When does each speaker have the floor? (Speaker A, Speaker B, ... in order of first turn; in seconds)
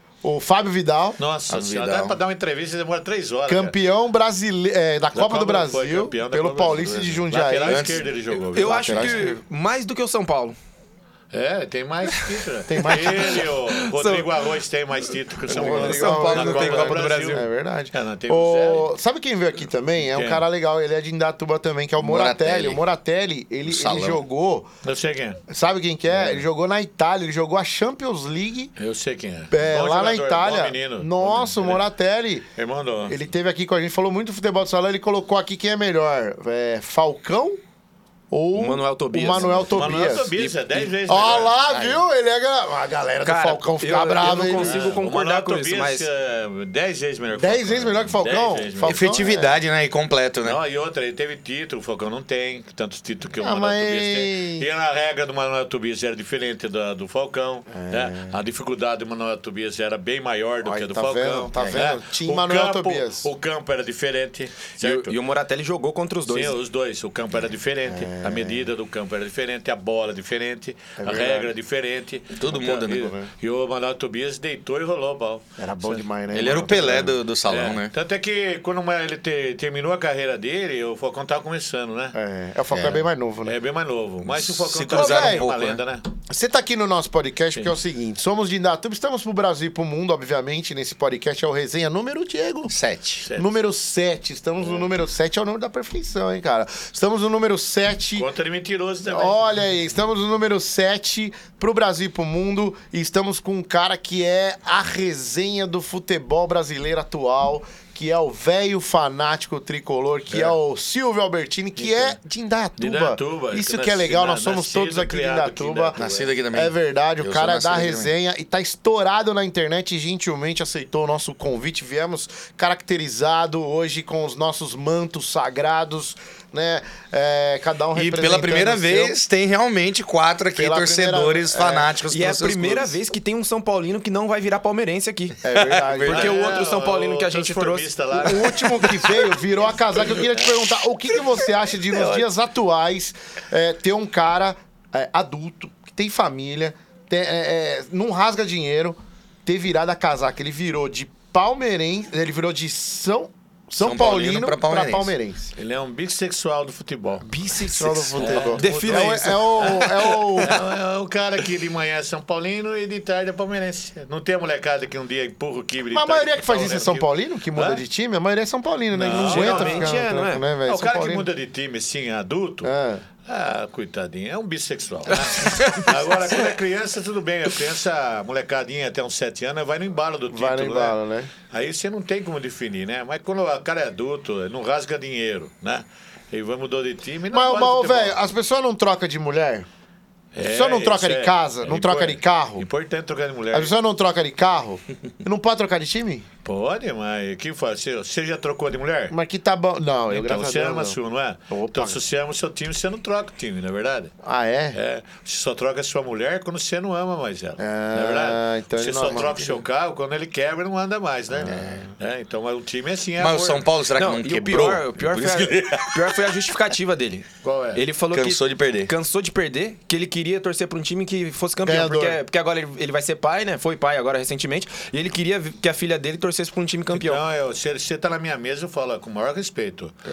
Speaker A: 0.2-2.2, 3.5-8.0, 8.6-9.4, 12.7-13.5, 15.5-24.7, 25.5-28.7, 29.5-32.5, 33.1-37.6, 38.3-40.3, 41.1-45.0, 47.3-49.6, 53.4-54.7, 57.7-58.4, 60.6-63.3, 67.9-68.7, 71.0-71.5, 72.9-73.3, 75.6-77.2, 82.1-83.6, 84.9-85.5, 86.3-92.7, 93.3-98.3, 99.1-129.2, 130.6-131.9, 135.4-136.3, 138.2-155.5, 157.2-160.6, 165.9-171.3, 172.6-173.0, 180.3-181.3, 187.3-189.7, 190.4-192.7, 193.5-196.3, 199.1-201.0, 201.5-202.0, 204.2-204.8, 207.6-209.6, 211.4-211.9, 221.6-222.2
Speaker B: 1.2-3.8, 5.1-9.3, 11.3-18.9, 20.1-20.4, 24.8-25.4, 28.8-31.8, 32.5-33.2, 39.6-42.0, 44.6-49.1, 50.4-65.2, 66.3-82.2, 83.4-86.1, 93.2-93.5, 98.2-99.5, 110.3-110.6, 111.8-112.1, 112.8-116.3, 136.1-139.2, 155.6-157.3, 158.2-167.8, 168.9-170.0, 170.7-172.7, 173.3-181.0, 181.5-188.2, 190.3-193.7, 196.4-199.2, 200.1-204.1, 204.7-213.7, 217.4-217.8, 226.9-230.0
Speaker C: 1.5-1.9, 7.7-8.0, 22.0-22.8, 23.7-24.2, 48.8-50.6, 72.4-73.2, 76.3-77.9, 82.7-83.0, 84.2-85.8, 92.7-93.3, 116.0-118.1, 127.9-133.0, 135.5-136.3, 153.8-155.1, 213.2-216.0, 218.1-218.9
Speaker D: 8.5-10.6, 12.8-14.3, 15.5-17.5, 38.5-40.9, 43.2-46.1, 64.8-66.6, 132.1-135.4, 136.0-138.7, 141.9-142.2, 158.0-159.9, 169.1-170.5, 175.4-175.9, 213.9-227.2